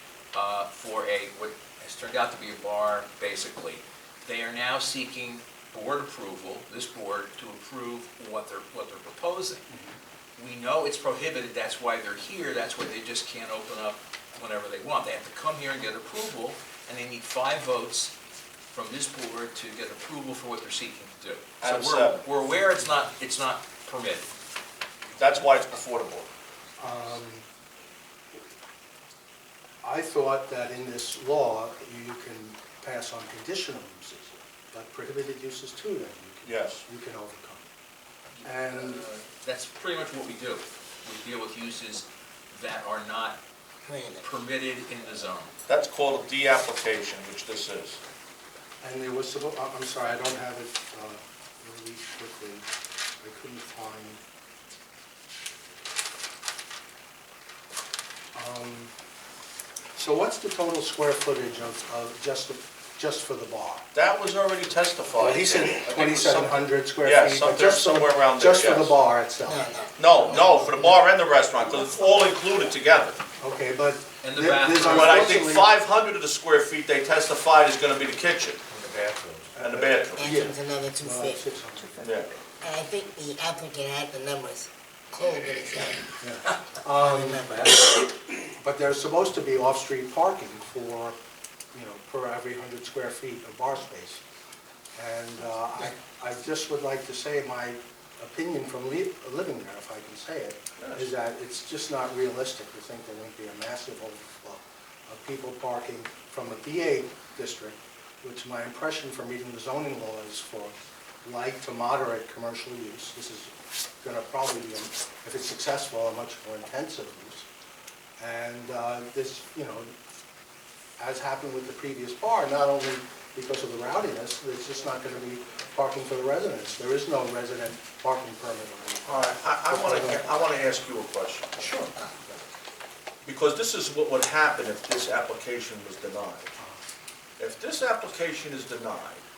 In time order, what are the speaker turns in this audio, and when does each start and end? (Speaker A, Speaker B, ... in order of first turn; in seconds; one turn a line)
Speaker A: 0.3-9.7
Speaker B: 9.7-10.0
Speaker A: 10.4-18.1
Speaker A: 18.7-24.3
Speaker C: 21.6-22.2
Speaker C: 25.2-26.3
Speaker B: 26.8-27.4
Speaker B: 29.8-37.6
Speaker C: 36.5-36.8
Speaker A: 38.4-43.4
Speaker B: 38.4-39.0
Speaker D: 43.9-44.3
Speaker A: 44.2-45.5
Speaker C: 45.7-48.0
Speaker B: 48.8-52.7
Speaker B: 53.2-54.2
Speaker B: 58.3-58.9
Speaker B: 60.0-63.8
Speaker C: 63.9-69.0
Speaker B: 65.2-71.0
Speaker D: 69.5-70.3
Speaker C: 70.0-73.2
Speaker B: 73.4-75.7
Speaker A: 74.2-75.2
Speaker C: 74.9-78.6
Speaker D: 78.8-79.4
Speaker B: 79.5-82.1
Speaker C: 79.6-80.5
Speaker D: 80.2-82.0
Speaker C: 82.0-82.3
Speaker D: 82.6-86.1
Speaker B: 86.2-87.8
Speaker D: 87.0-88.1
Speaker B: 88.6-91.2
Speaker B: 91.7-94.2
Speaker B: 95.0-117.5
Speaker C: 100.8-101.1
Speaker B: 118.2-119.9
Speaker B: 121.0-130.4
Speaker C: 129.1-131.8
Speaker B: 131.6-131.9
Speaker C: 133.2-136.5
Speaker C: 137.4-139.2